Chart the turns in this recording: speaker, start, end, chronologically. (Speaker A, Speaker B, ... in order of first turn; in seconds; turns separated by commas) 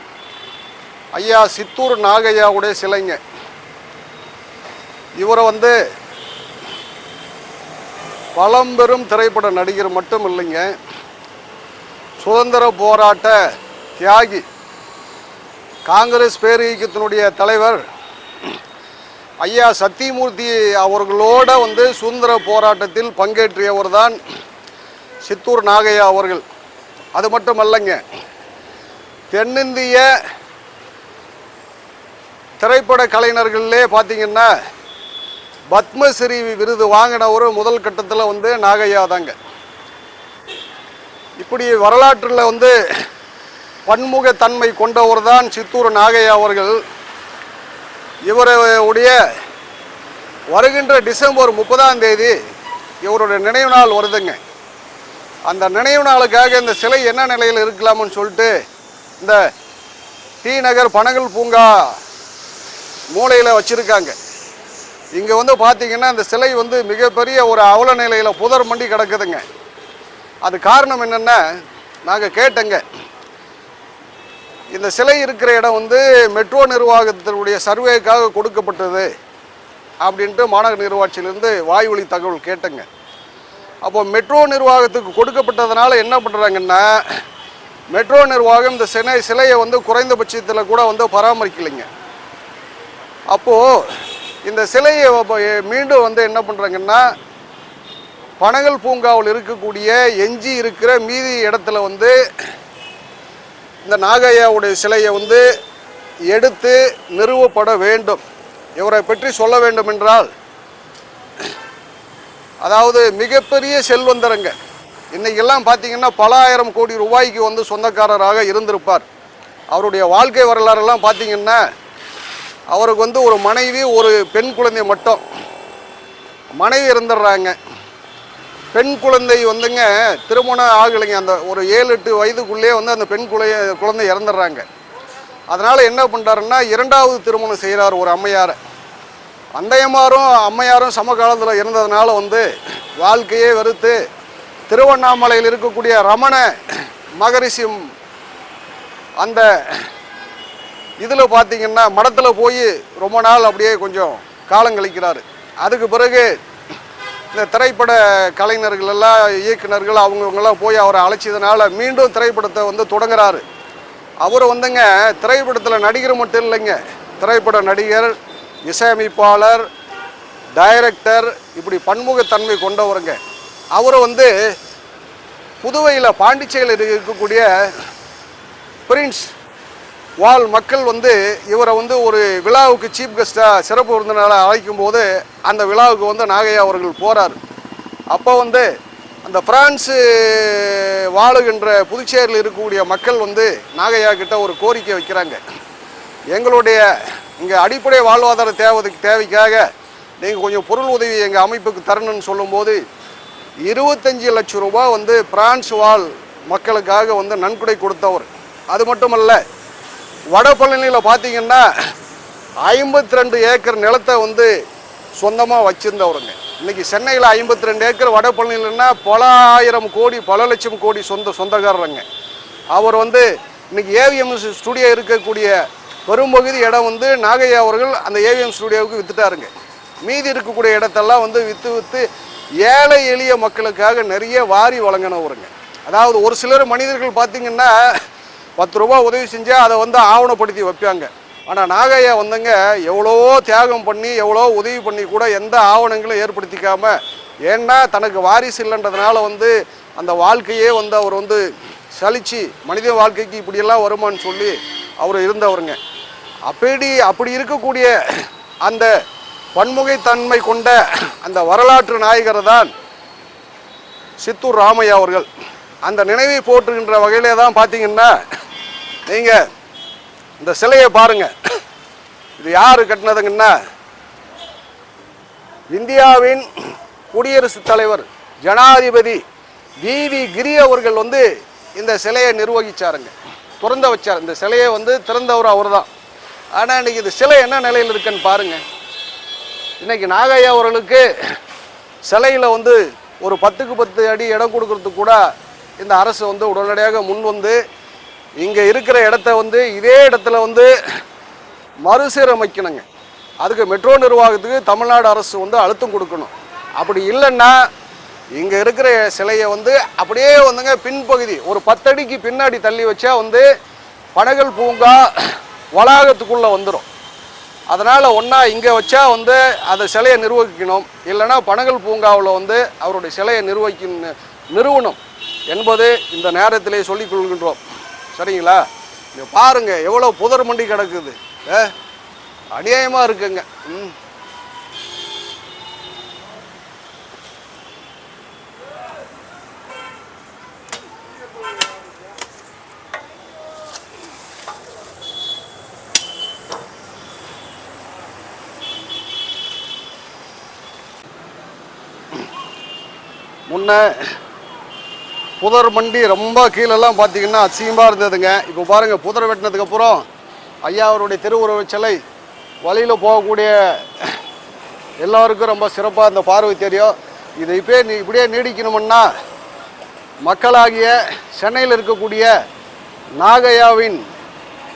Speaker A: 1.1-3.2, Speaker A: 5.2-5.8, Speaker A: 8.3-10.7, Speaker A: 12.2-13.4, Speaker A: 14.0-14.4, Speaker A: 15.9-17.8, Speaker A: 19.4-24.2, Speaker A: 25.2-26.4, Speaker A: 27.1-28.0, Speaker A: 29.3-30.1, Speaker A: 32.6-34.5, Speaker A: 35.7-39.4, Speaker A: 41.4-42.8, Speaker A: 43.9-46.8, Speaker A: 48.3-49.2, Speaker A: 50.5-52.4, Speaker A: 53.0-54.4, Speaker A: 55.5-58.5, Speaker A: 60.4-62.0, Speaker A: 63.1-64.2, Speaker A: 65.1-69.4, Speaker A: 70.4-72.8, Speaker A: 74.7-79.1, Speaker A: 80.0-82.8, Speaker A: 83.8-87.2, Speaker A: 87.9-91.9, Speaker A: 93.3-93.9, Speaker A: 94.4-97.0, Speaker A: 98.4-102.2, Speaker A: 103.8-105.5, Speaker A: 106.3-108.2, Speaker A: 108.8-110.3, Speaker A: 112.6-114.5, Speaker A: 115.1-119.0, Speaker A: 119.7-121.6, Speaker A: 122.7-125.2, Speaker A: 126.6-127.6, Speaker A: 128.7-134.7, Speaker A: 135.5-138.6, Speaker A: 139.6-144.0, Speaker A: 144.7-147.8, Speaker A: 149.2-149.9, Speaker A: 151.0-156.3, Speaker A: 157.3-163.4, Speaker A: 164.2-168.1, Speaker A: 168.7-169.7, Speaker A: 170.6-173.2, Speaker A: 173.7-174.3, Speaker A: 175.6-177.7, Speaker A: 178.9-179.3, Speaker A: 180.2-187.4, Speaker A: 188.1-188.7, Speaker A: 189.2-195.4, Speaker A: 196.3-199.7, Speaker A: 200.2-202.8, Speaker A: 203.6-209.4, Speaker A: 210.3-211.7, Speaker A: 212.6-214.5, Speaker A: 215.2-222.0, Speaker A: 222.7-225.5, Speaker A: 226.1-229.5, Speaker A: 230.0-232.1, Speaker A: 232.6-238.0, Speaker A: 238.6-255.8, Speaker A: 256.4-258.9, Speaker A: 259.5-262.7, Speaker A: 264.2-265.3, Speaker A: 265.8-268.1, Speaker A: 269.1-269.4, Speaker A: 270.4-271.3, Speaker A: 272.4-273.5, Speaker A: 275.7-276.5, Speaker A: 277.1-279.2, Speaker A: 279.8-285.9, Speaker A: 286.5-288.6, Speaker A: 289.8-291.1, Speaker A: 292.0-295.2, Speaker A: 295.8-297.6, Speaker A: 298.4-300.7, Speaker A: 301.8-302.8, Speaker A: 303.4-307.7, Speaker A: 308.3-313.4, Speaker A: 314.1-316.9, Speaker A: 317.7-327.6, Speaker A: 328.1-331.7, Speaker A: 332.5-333.9, Speaker A: 353.5-354.1, Speaker A: 355.4-360.0, Speaker A: 360.6-362.0, Speaker A: 362.6-364.1, Speaker A: 365.0-369.1, Speaker A: 370.2-372.3, Speaker A: 373.2-374.0